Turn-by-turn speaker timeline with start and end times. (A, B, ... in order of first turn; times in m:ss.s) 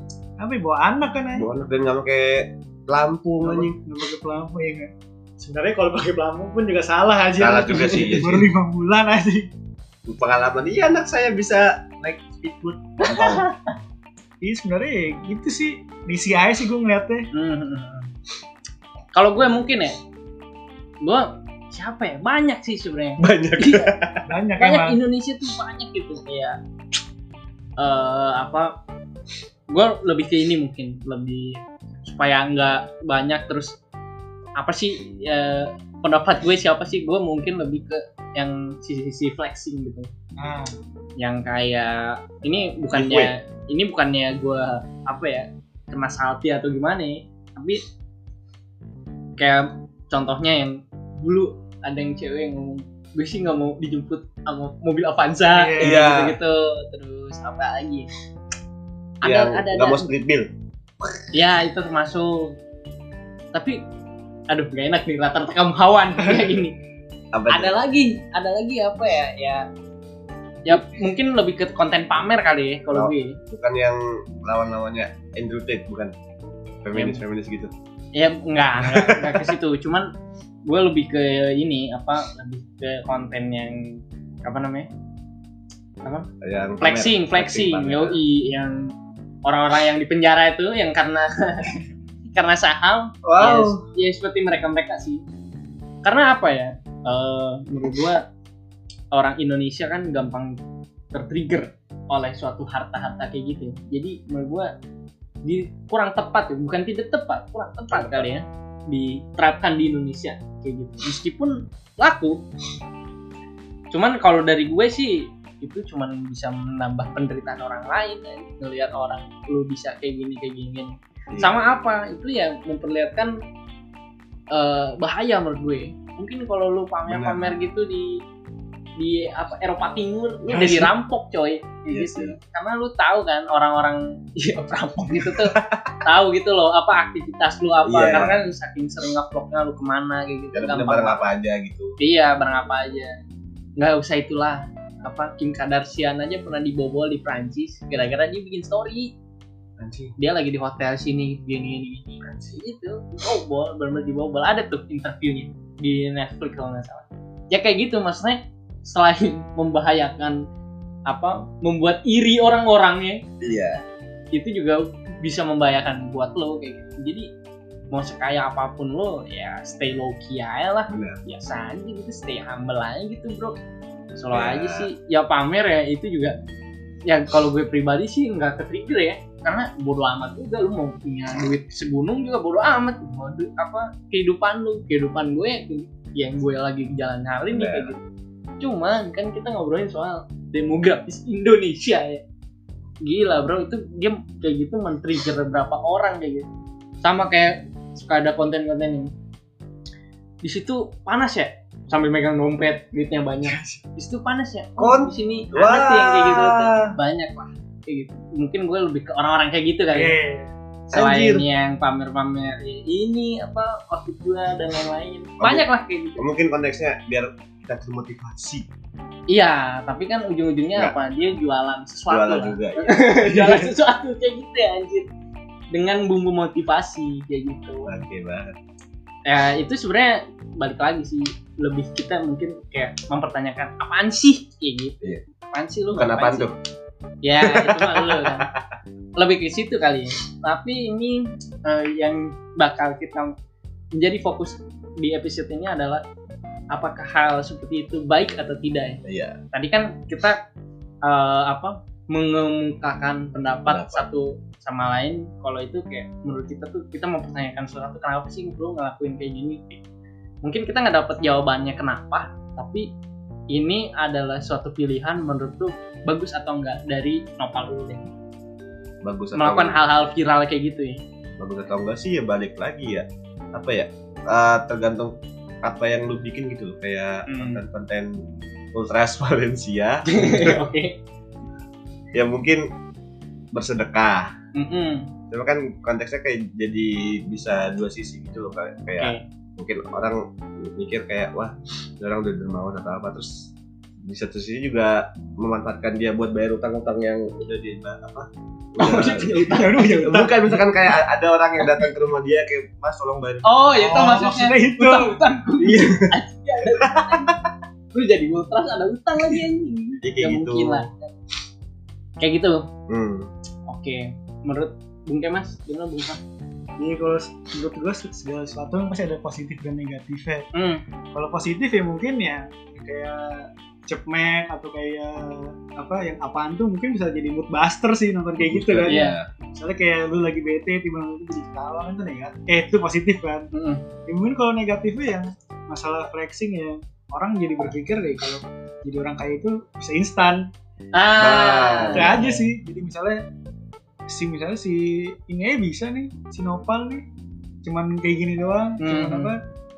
0:00.4-0:01.5 A
0:01.3-0:03.8 B
0:03.4-0:09.5 A
0:07.4-0:08.5 B
0:10.1-0:13.5 B
0:13.0-0:13.6 C
0:14.4-0:17.3 A
0:17.3-0:18.1 C
0:19.1-0:20.0 C
0:21.0-0:23.9 C
0:23.2-0:24.2 B
0:24.3-0:25.0 A
0:24.6-0:26.6 C
0:27.8-0:28.7 C
0:29.7-0:33.8 C
0:34.6-0:40.1 C
0:40.4-0:40.8 A
0:41.2-0:47.8 C
0:42.9-0:43.3 B
0:49.4-0:58.1 C
0:55.5-0:56.0 A
0:55.8-0:56.4 B
0:59.2-1:00.1 C
0:59.2-1:00.5 B
1:01.3-1:02.6 C
1:03.5-1:03.8 C
1:04.5-1:06.7 C
1:07.3-1:07.7 B
1:07.5-1:09.7 C
1:10.6-1:13.4 C
1:12.9-1:16.1 B
1:16.8-1:17.7 B
1:16.9-1:17.2 C
1:18.1-1:20.1 C
1:18.8-1:19.5 B
1:20.6-1:24.9 C
1:26.0-1:26.3 C
1:26.4-1:28.2 B
1:26.8-1:28.9 C
1:29.4-1:31.8 C
1:32.3-1:35.2 C
1:33.2-1:33.8 B
1:36.0-1:38.2 C
1:39.1-1:40.6 C
1:41.1-1:44.7 C
1:45.4-1:52.4 C
1:47.9-1:48.2 B
1:53.9-2:03.3 C
2:01.3-2:01.6 B
2:04.5-2:08.2 C
2:07.1-2:07.6 B
2:09.0-2:21.2 C
2:10.5-2:10.9 A
2:11.9-2:12.4 B
2:15.3-2:15.9 B
2:17.8-2:18.4 B
2:20.5-2:22.0 B
2:22.0-2:23.2 C
2:23.8-2:29.1 C
2:29.8-2:30.1 B
2:30.2-2:40.4 C
2:32.2-2:32.6 B
2:41.1-2:43.2 C
2:43.4-2:43.8 B
2:44.3-2:47.3 C
2:47.9-2:53.5 C
2:50.9-2:51.2 B
2:54.2-2:56.4 C
2:54.3-2:54.9 B
2:57.0-3:08.0 C
3:07.5-3:07.9 B
3:08.6-3:12.2 C
3:13.0-3:16.5 C
3:17.0-3:19.1 C
3:20.4-3:30.1 C
3:23.4-3:23.8 A
3:24.8-3:26.9 B
3:29.9-3:30.5 A
3:30.9-3:36.2 C
3:30.9-3:31.4 B
3:36.2-3:38.6 B
3:39.3-3:45.1 C
3:42.1-3:43.1 B
3:43.3-3:43.6 A
3:45.7-3:47.9 C
3:47.8-3:48.6 B
3:49.2-3:56.5 C
3:55.9-3:56.6 B
3:57.2-3:58.5 C
3:57.4-3:58.6 B
3:59.2-4:03.3 C
4:03.9-4:06.0 C
4:06.7-4:09.0 C
4:09.0-4:09.4 B
4:09.5-4:10.4 C
4:11.0-4:19.8 C
4:13.7-4:14.0 B
4:20.4-4:22.9 C
4:23.5-4:28.1 C
4:29.0-4:29.8 B
4:29.4-4:31.0 C
4:31.4-4:40.6 B
4:37.3-4:37.6 C
4:40.1-4:41.0 C
4:42.1-4:42.7 B
4:43.5-4:44.3 B
4:44.5-4:45.1 C
4:45.3-4:53.5 B
4:54.0-5:03.6 B
4:58.8-4:59.8 C
4:59.5-5:00.9 A
5:03.4-5:07.3 C
5:03.7-5:05.2 A
5:05.6-5:06.1 B
5:06.8-5:07.3 B
5:07.9-5:11.1 C
5:10.0-5:10.9 B
5:12.2-5:12.7 C
5:12.9-5:13.3 B
5:13.7-5:16.2 C
5:16.8-5:20.5 A
5:20.5-5:20.8 C
5:21.1-5:33.5 A
5:28.4-5:29.3 B
5:28.9-5:29.2 C
5:33.5-5:33.8 C
5:34.1-5:40.5 A
5:40.9-5:42.4 C
5:41.2-5:42.1 B
5:41.9-5:43.2 A
5:44.1-5:47.0 A
5:47.6-5:49.4 A
5:48.8-5:49.3 C